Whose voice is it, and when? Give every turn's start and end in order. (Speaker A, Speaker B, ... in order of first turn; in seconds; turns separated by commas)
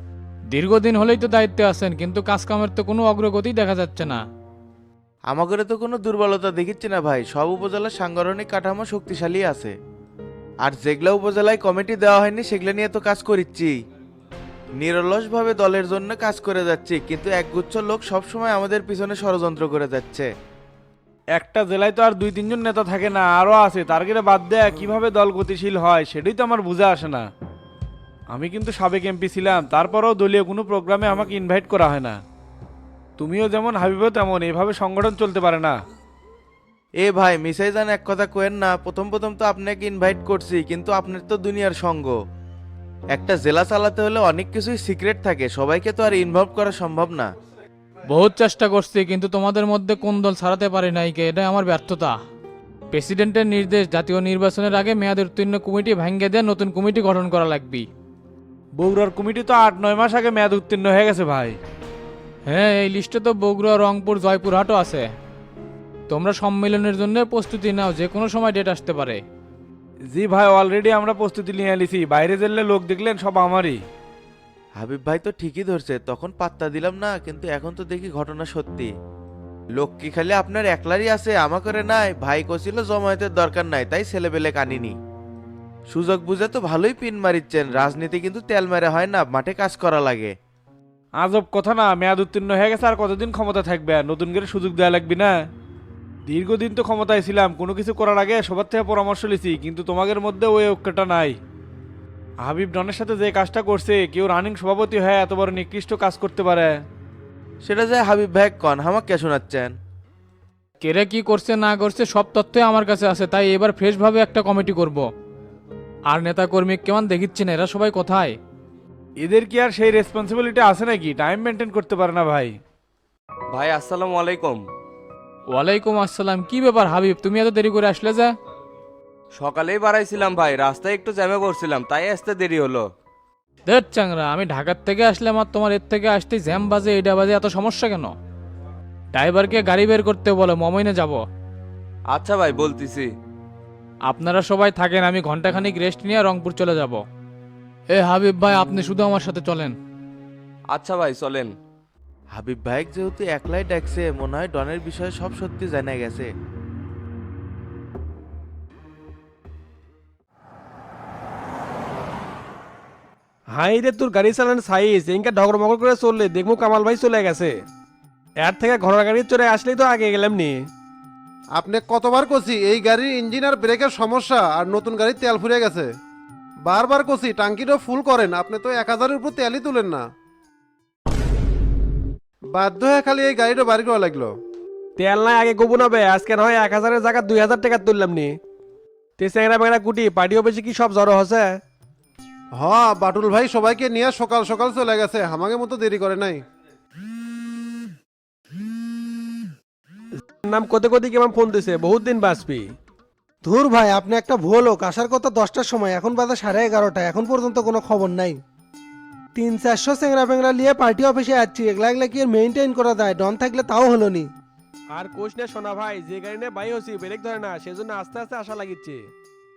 Speaker A: 0.5-4.2, Speaker B: 5.3-9.7, Speaker B: 10.6-13.7, Speaker B: 14.8-20.3, Speaker C: 21.4-27.2, Speaker C: 28.3-32.1, Speaker C: 33.2-35.7, Speaker B: 37.0-42.1, Speaker B: 43.1-47.3, Speaker A: 48.1-52.1, Speaker A: 52.9-57.9, Speaker C: 58.8-61.6, Speaker A: 62.5-65.1, Speaker A: 66.1-69.2, Speaker C: 70.1-73.8, Speaker B: 74.8-78.9, Speaker B: 79.8-84.9, Speaker B: 85.9-90.3, Speaker C: 91.2-95.3, Speaker C: 96.2-101.4, Speaker C: 102.4-106.8, Speaker B: 107.6-109.7, Speaker A: 110.8-115.0, Speaker A: 116.1-118.3, Speaker C: 119.2-122.5, Speaker D: 123.5-124.6, Speaker A: 125.5-128.3, Speaker D: 129.3-132.8, Speaker A: 133.7-138.1, Speaker A: 139.1-141.2, Speaker D: 142.1-143.1, Speaker A: 144.1-147.0, Speaker A: 147.9-149.7, Speaker D: 150.7-151.5, Speaker B: 152.3-156.3, Speaker E: 163.5-167.6, Speaker E: 168.4-170.6, Speaker F: 171.6-175.9, Speaker F: 176.7-180.0, Speaker F: 182.6-184.3, Speaker E: 185.0-188.4, Speaker E: 189.2-191.6, Speaker F: 192.6-196.4, Speaker E: 200.4-202.7, Speaker G: 203.4-208.4, Speaker G: 209.3-214.3, Speaker E: 214.9-219.1